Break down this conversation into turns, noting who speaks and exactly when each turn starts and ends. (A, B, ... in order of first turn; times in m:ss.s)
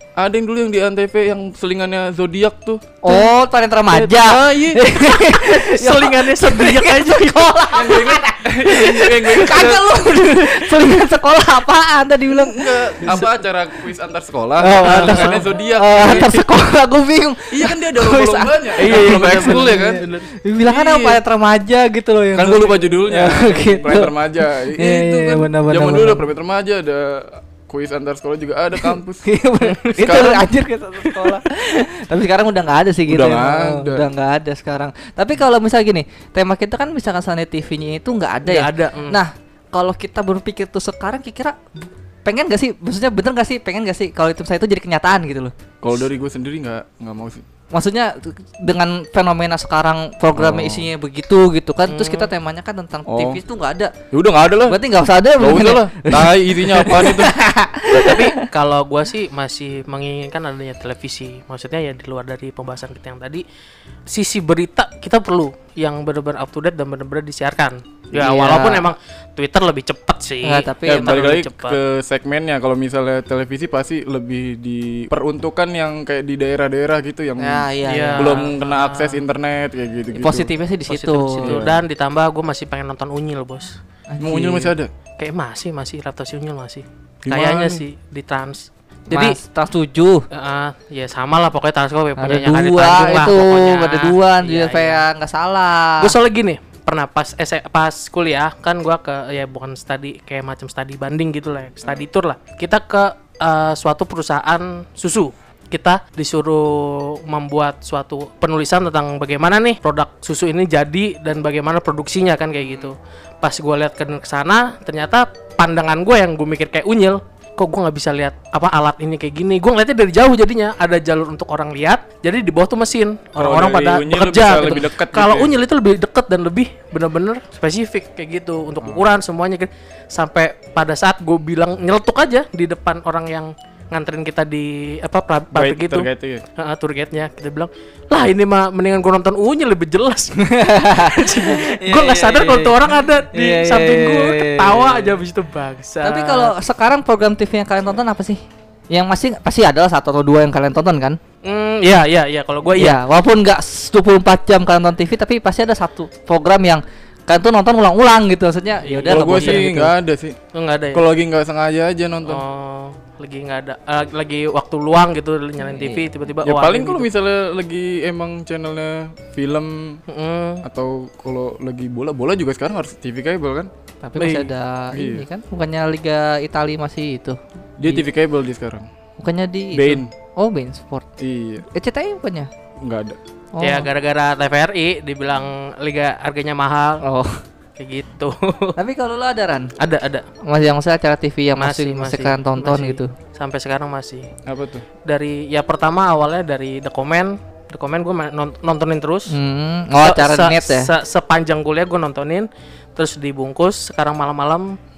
0:00.2-0:02.8 A
0:03.0-0:13.2 B
0:03.9-0:07.7 C
0:04.0-0:04.8 A
0:07.7-0:10.1 A
0:12.3-0:16.3 A
0:14.6-0:26.3 B
0:14.8-0:15.4 C
0:16.0-0:16.4 C
0:17.5-0:20.0 A
0:18.8-0:20.3 C
0:20.6-0:21.2 A
0:22.3-0:29.3 A
0:28.8-0:45.5 B
0:29.6-0:30.2 C
0:30.0-0:30.5 A
0:33.1-0:34.0 A
0:38.4-0:39.2 C
0:45.8-0:47.4 A
0:47.7-0:53.9 B
0:50.4-0:50.9 A
0:51.9-0:52.3 C
0:53.1-0:53.4 A
0:54.1-0:54.8 A
0:54.7-0:58.4 B
0:55.4-0:57.4 A
0:57.9-1:03.4 C
1:04.1-1:11.8 C
1:08.1-1:08.9 B
1:10.4-1:11.3 B
1:10.8-1:20.5 A
1:17.4-1:18.4 B
1:17.8-1:19.2 C
1:20.1-1:21.6 B
1:20.9-1:23.8 C
1:21.4-1:21.8 A
1:24.1-1:24.7 B
1:24.2-1:24.9 A
1:25.2-1:29.4 C
1:27.2-1:27.8 A
1:29.1-1:30.2 B
1:30.3-1:35.0 C
1:32.2-1:36.1 B
1:36.0-2:26.5 C
2:03.4-2:05.5 A
2:15.5-2:16.4 A
2:20.4-2:25.2 B
2:26.0-2:28.4 B
2:28.9-2:31.2 B
2:31.4-2:33.0 C
2:32.8-2:39.9 B
2:38.8-2:39.6 C
2:39.1-2:40.4 A
2:40.5-2:41.0 C
2:40.9-2:42.4 A
2:42.2-2:47.1 C
2:45.6-2:46.1 B
2:46.4-2:50.0 A
2:50.1-2:50.6 C
2:50.6-2:53.7 A
2:54.0-2:58.1 B
2:54.2-2:54.5 C
2:54.9-2:55.2 A
2:57.8-2:58.9 A
2:59.2-3:01.1 B
2:59.7-3:00.1 A
3:01.2-3:01.7 A
3:01.7-3:02.5 B
3:02.8-3:03.2 A
3:03.5-3:03.9 B
3:03.6-3:07.0 C
3:07.0-3:07.4 B
3:07.8-3:08.8 C
3:08.8-3:09.7 B
3:09.8-3:10.2 C
3:10.4-3:13.1 B
3:11.6-3:14.3 C
3:14.4-3:14.8 A
3:15.0-3:19.4 C
3:19.3-3:20.9 B
3:20.0-3:24.8 C